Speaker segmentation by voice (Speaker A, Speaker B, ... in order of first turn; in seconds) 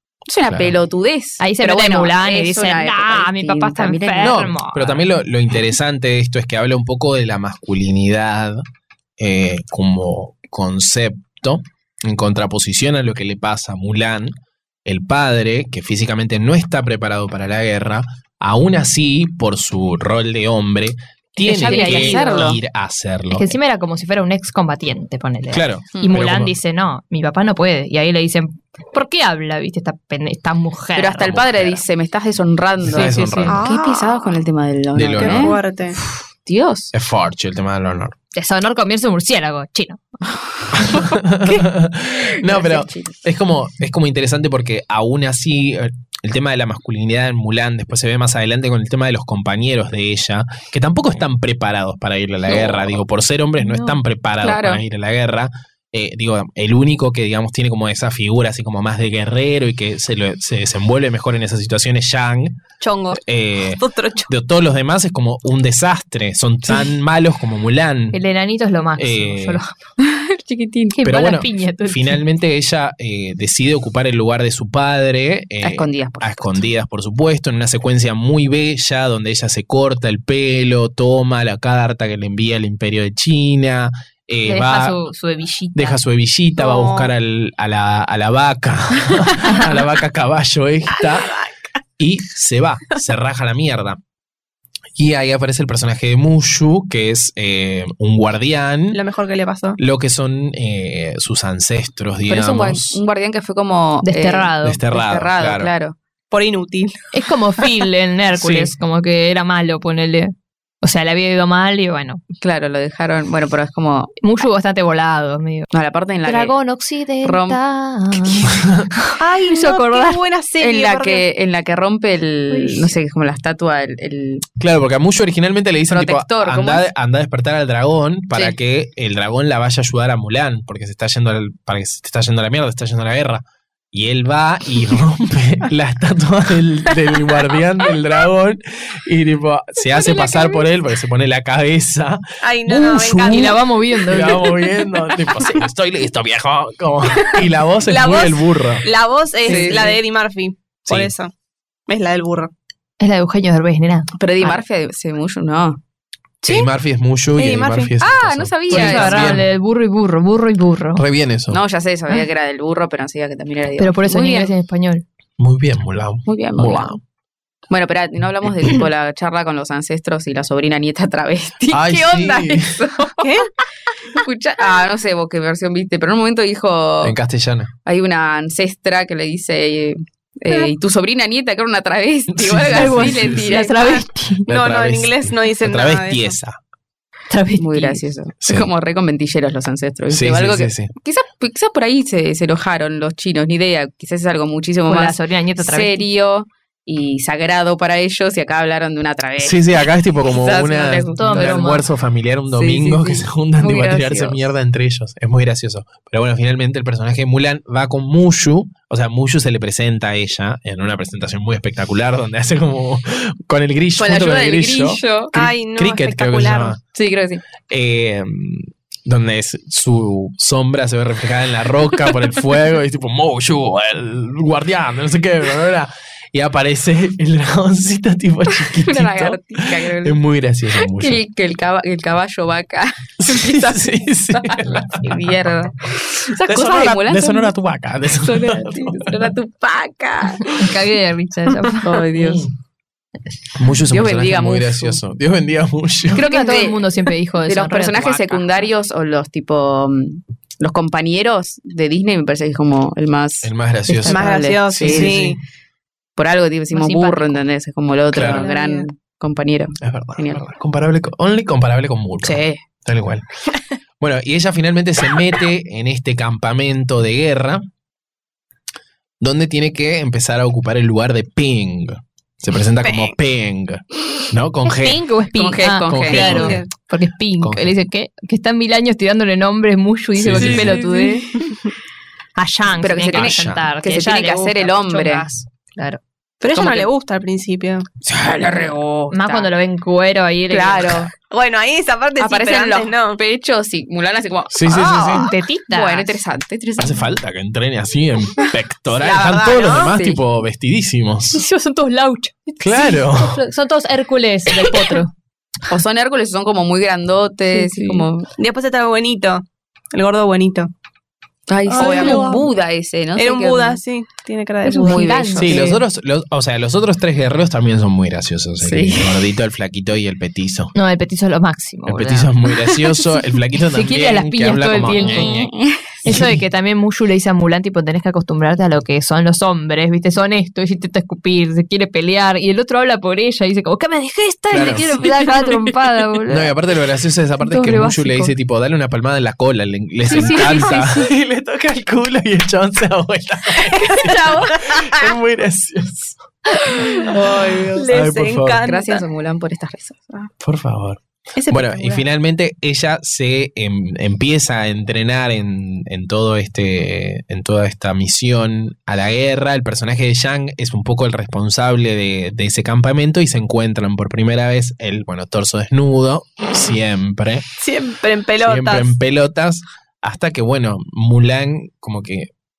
Speaker A: 0.3-4.4, 21.5-22.6, 31.0-35.6, 36.5-36.9, 40.4-41.2, 42.3-43.2, 52.5-52.9, 54.4-54.8, 70.0-71.0, 75.6-76.7, 102.3-106.0, 112.4-114.1, 115.7-116.5, 117.2-117.6, 118.2-118.5, 120.6-124.4, 125.9-126.8, 149.4-150.0, 154.2-155.8, 158.0-159.4, 161.5-164.5, 166.3-167.0, 167.7-173.4, 174.1-177.2, 177.9-184.0, 187.6-201.6, 202.5-204.5, 214.0-215.3, 216.9-217.4, 228.7-230.2, 230.8-237.5, 238.1-240.7, 241.8-242.5, 243.9-245.0, 246.1-246.9, 247.5-255.3, 256.2-260.4, 262.2-262.6, 275.3-276.5, 282.8-285.3, 286.5-286.9, 288.1-289.5, 290.5-291.1, 292.2-295.2, 295.7-297.1, 299.9-300.2, 305.7-308.3, 311.5-313.8, 314.8-315.8, 318.6-319.2, 324.9-326.0, 344.0-344.5, 346.8-347.9, 348.6-350.3
Speaker B: 0.5-0.8, 4.2-8.6, 9.2-23.6, 25.5-26.6, 31.2-31.9, 32.8-33.6, 34.9-35.5, 36.9-38.1, 40.7-62.6, 63.1-68.2, 69.0-69.6, 71.0-85.0, 85.8-91.4, 92.0-94.0, 95.0-99.0, 99.8-103.0, 104.6-105.7, 108.3-108.7, 118.5-118.9, 124.6-148.9, 150.9-151.1, 156.4-159.5, 161.0-161.6, 165.4-167.0, 171.7-172.8, 177.0-177.7, 182.3-183.5, 184.5-186.6, 188.4-188.7, 190.1-190.9, 199.4-216.8, 217.7-231.2, 233.2-235.3, 236.4-239.3, 242.2-242.5, 243.6-246.3, 253.4-255.4, 258.1-258.5, 259.8-263.2, 264.0-267.7, 269.2-275.0, 275.9-276.6, 277.4-277.7, 280.2-280.8, 283.1-283.7, 294.5-295.3, 296.8-301.4, 302.6-303.4, 315.4-320.8, 321.9-325.5, 326.1-326.4, 334.5-335.1, 336.3-346.2, 347.9-348.6, 350.4-367.5, 368.4-372.3
Speaker C: 1.4-5.0, 21.4-22.6, 23.3-31.4, 32.9-33.5, 38.3-40.0, 53.6-53.9, 68.1-69.9, 70.9-72.2, 84.5-86.0, 104.0-104.8, 107.1-112.2, 114.2-115.7, 116.2-120.2, 143.2-144.6, 153.0-154.6, 158.7-161.0, 163.8-165.0, 182.7-184.5, 187.3-188.0, 194.9-196.1, 201.2-201.8, 240.4-242.1, 246.2-248.7, 256.7-257.4, 274.6-281.3, 282.4-286.0, 289.1-291.1, 294.8-296.2, 301.3-305.1, 307.5-308.1, 311.7-312.3, 314.6-315.8, 320.8-322.3, 323.7-325.4, 326.0-336.5, 337.4-338.3, 340.1-341.1
Speaker D: 33.5-34.4, 35.1-36.0, 62.8-64.3, 86.6-87.1, 91.2-91.5, 98.9-99.8, 106.3-107.0, 119.2-121.3, 122.5-122.9, 142.4-143.6, 147.2-151.3, 151.9-152.5, 156.4-156.7, 157.4-157.9, 173.2-173.5, 184.5-186.3, 215.3-216.8, 254.1-255.4, 258.1-258.9, 272.8-273.2, 276.2-276.7, 280.4-281.4, 286.4-287.9, 291.3-293.2, 294.7-295.1, 299.0-300.0, 308.4-310.7, 311.7-312.5, 313.1-315.4, 343.7-344.8, 347.7-349.1, 351.4-352.1, 367.6-368.9